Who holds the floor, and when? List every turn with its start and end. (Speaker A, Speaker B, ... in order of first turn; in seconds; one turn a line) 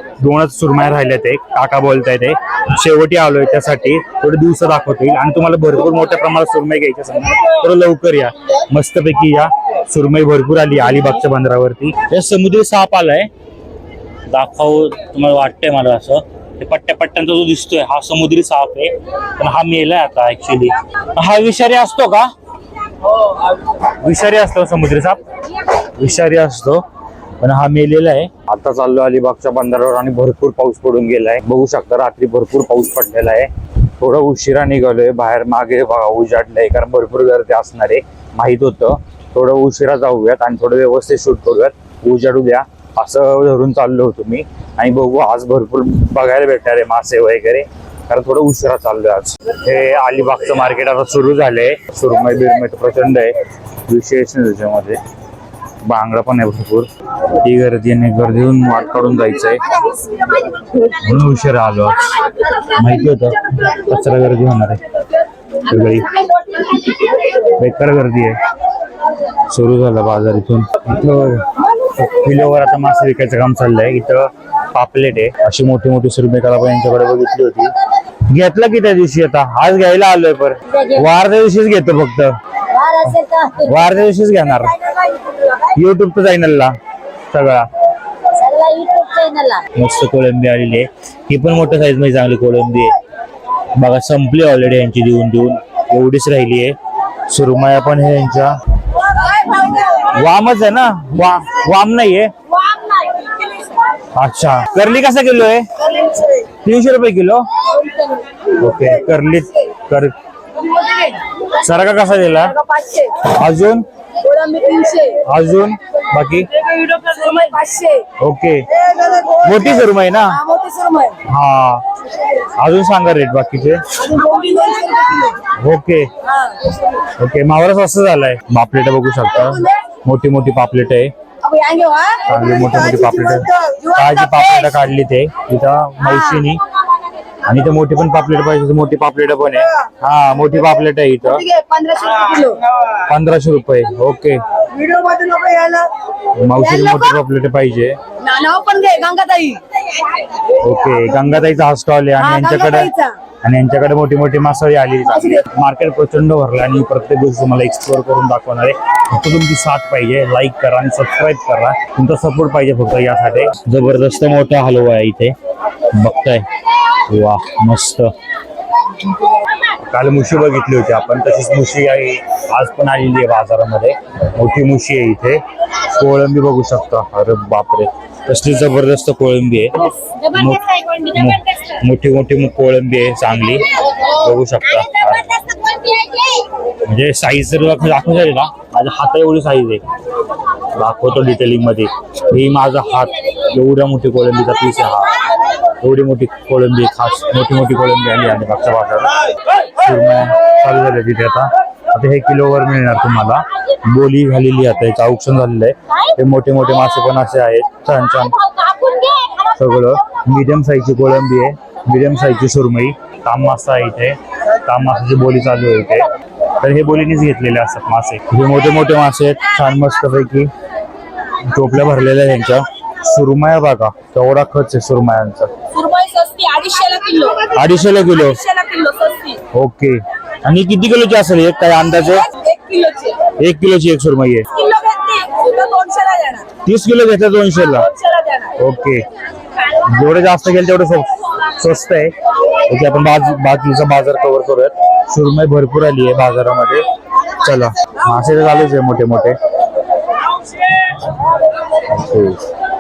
Speaker A: 0.2-13.3
Speaker A: 14.3-22.3
Speaker A: 24.0-25.2
Speaker A: 25.9-26.8
Speaker A: 27.4-53.3
Speaker A: 53.9-55.0
Speaker A: 55.8-56.9
Speaker A: 57.4-59.7
Speaker A: 60.8-64.8
Speaker A: 65.6-66.2
Speaker A: 67.4-68.4
Speaker A: 69.5-77.7
Speaker A: 78.3-82.4
Speaker B: 82.8-83.7
Speaker A: 83.1-84.7
Speaker A: 85.6-86.7
Speaker A: 87.3-87.7
Speaker B: 88.4-89.6
Speaker A: 89.7-92.9
Speaker A: 93.8-96.8
Speaker A: 97.3-98.5
Speaker A: 100.0-102.3
Speaker B: 102.6-103.5
Speaker A: 104.1-105.7
Speaker A: 106.6-107.5
Speaker A: 108.5-110.1
Speaker B: 110.7-111.2
Speaker A: 111.5-112.6
Speaker B: 112.6-113.2
Speaker A: 113.1-113.8
Speaker B: 114.2-115.2
Speaker A: 115.2-116.5
Speaker B: 116.7-118.0
Speaker A: 118.2-118.7
Speaker B: 118.9-119.5
Speaker A: 119.3-120.4
Speaker B: 120.3-121.2
Speaker A: 121.2-121.8
Speaker A: 122.6-123.9
Speaker B: 124.0-125.4
Speaker A: 125.5-126.1
Speaker A: 127.2-131.1
Speaker B: 131.4-132.4
Speaker A: 132.2-136.6
Speaker B: 133.0-133.9
Speaker A: 137.4-141.4
Speaker B: 141.3-142.6
Speaker A: 143.1-144.4
Speaker B: 144.7-145.9
Speaker A: 146.3-148.0
Speaker B: 148.2-150.0
Speaker A: 150.6-152.9
Speaker B: 152.2-153.1
Speaker A: 153.4-165.3
Speaker A: 165.9-166.4
Speaker A: 167.1-168.1
Speaker A: 169.8-185.4
Speaker A: 186.8-189.8
Speaker A: 190.7-195.1
Speaker A: 195.8-199.1
Speaker A: 199.8-208.3
Speaker A: 209.4-216.1
Speaker A: 216.6-220.5
Speaker A: 221.5-225.5
Speaker B: 225.7-229.4
Speaker A: 227.5-228.4
Speaker A: 229.5-232.3
Speaker B: 232.4-233.2
Speaker A: 233.4-234.5
Speaker B: 234.5-236.5
Speaker A: 236.6-237.9
Speaker B: 237.9-238.5
Speaker A: 238.6-239.1
Speaker A: 239.6-242.1
Speaker A: 242.7-246.8
Speaker A: 247.4-249.4
Speaker A: 251.8-252.4